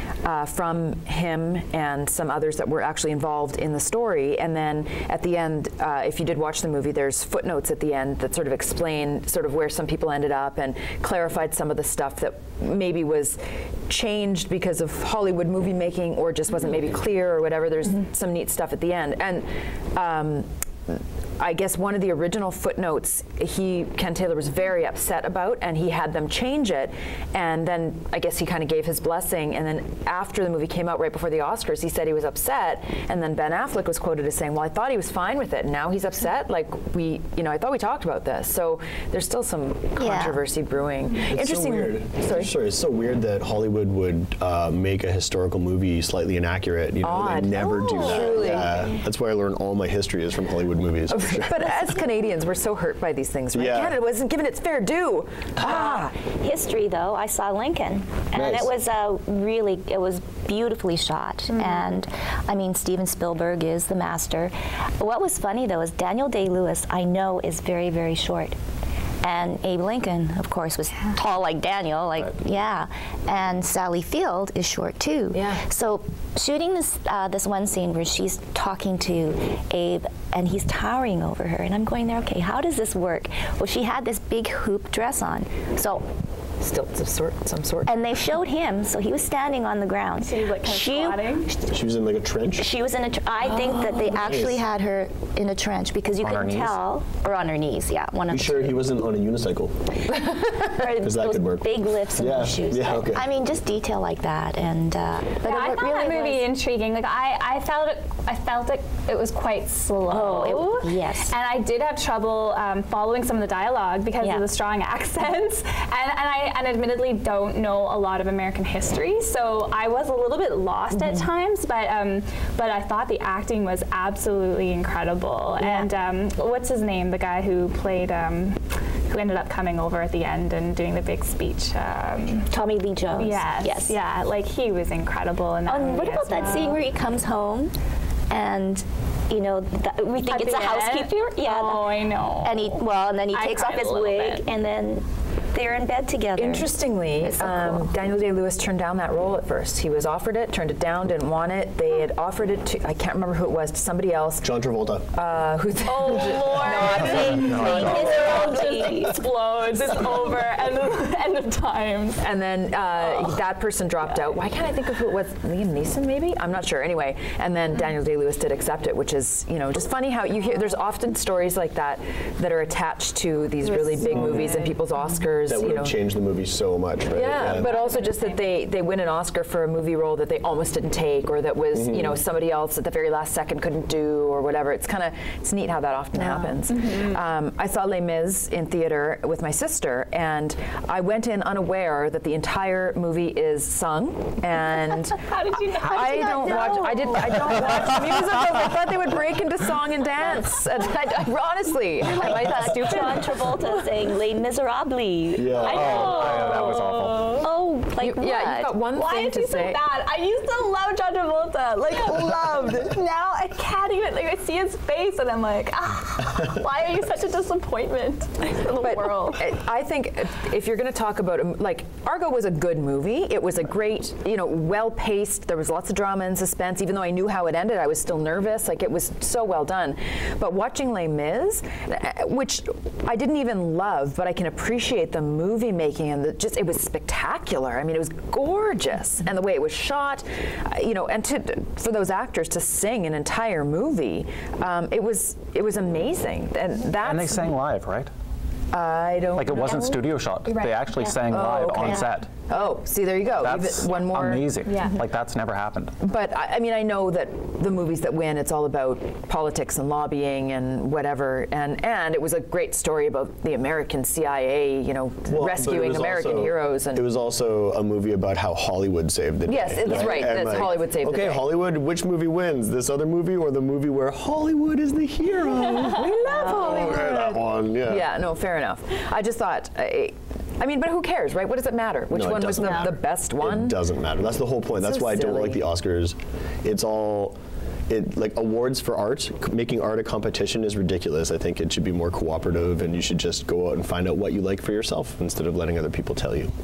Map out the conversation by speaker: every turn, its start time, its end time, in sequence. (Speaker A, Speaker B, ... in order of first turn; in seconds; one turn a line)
Speaker A: 0.2-42.5
Speaker B: 40.0-40.4
Speaker C: 41.2-51.7
Speaker A: 47.0-48.8
Speaker B: 47.9-48.8
Speaker A: 51.1-56.2
Speaker C: 53.5-54.0
Speaker B: 55.6-68.6
Speaker C: 58.4-58.7
Speaker B: 69.2-86.0
Speaker A: 75.3-75.6
Speaker A: 86.6-87.9
Speaker B: 87.9-91.7
Speaker D: 90.2-91.5
Speaker C: 91.7-92.7
Speaker B: 92.6-98.9
Speaker C: 94.1-94.6
Speaker E: 96.2-96.8
Speaker C: 98.3-99.7
Speaker B: 100.1-106.5
Speaker C: 101.0-103.2
Speaker D: 105.4-132.5
Speaker B: 110.1-111.4
Speaker B: 114.2-114.5
Speaker B: 120.9-121.3
Speaker B: 125.6-125.9
Speaker B: 132.5-134.0
Speaker D: 133.2-136.8
Speaker B: 135.7-137.7
Speaker B: 138.3-141.9
Speaker D: 140.3-142.8
Speaker B: 142.4-147.9
Speaker D: 143.3-144.4
Speaker A: 146.4-154.5
Speaker C: 154.4-155.1
Speaker A: 155.1-158.4
Speaker D: 155.9-162.2
Speaker E: 157.3-158.2
Speaker B: 157.5-159.2
Speaker A: 162.2-176.0
Speaker D: 173.7-174.8
Speaker C: 174.1-174.4
Speaker C: 175.4-177.7
Speaker A: 177.2-203.3
Speaker D: 177.4-178.5
Speaker C: 181.7-182.2
Speaker D: 186.7-187.1
Speaker D: 195.0-197.9
Speaker B: 202.2-206.7
Speaker D: 202.3-203.9
Speaker C: 205.3-206.3
Speaker D: 205.6-207.5
Speaker E: 205.7-207.4
Speaker B: 207.4-208.8
Speaker A: 208.0-209.8
Speaker D: 208.9-219.4
Speaker A: 218.8-247.5
Speaker E: 247.0-248.1
Speaker A: 248.7-250.0
Speaker E: 249.4-252.3
Speaker D: 250.4-251.1
Speaker A: 251.3-254.5
Speaker E: 253.4-255.9
Speaker D: 254.7-255.0
Speaker A: 256.0-267.1
Speaker C: 265.3-278.1
Speaker A: 269.5-271.5
Speaker A: 275.9-283.8
Speaker B: 276.2-276.9
Speaker C: 282.1-287.4
Speaker A: 284.8-285.6
Speaker C: 287.9-296.5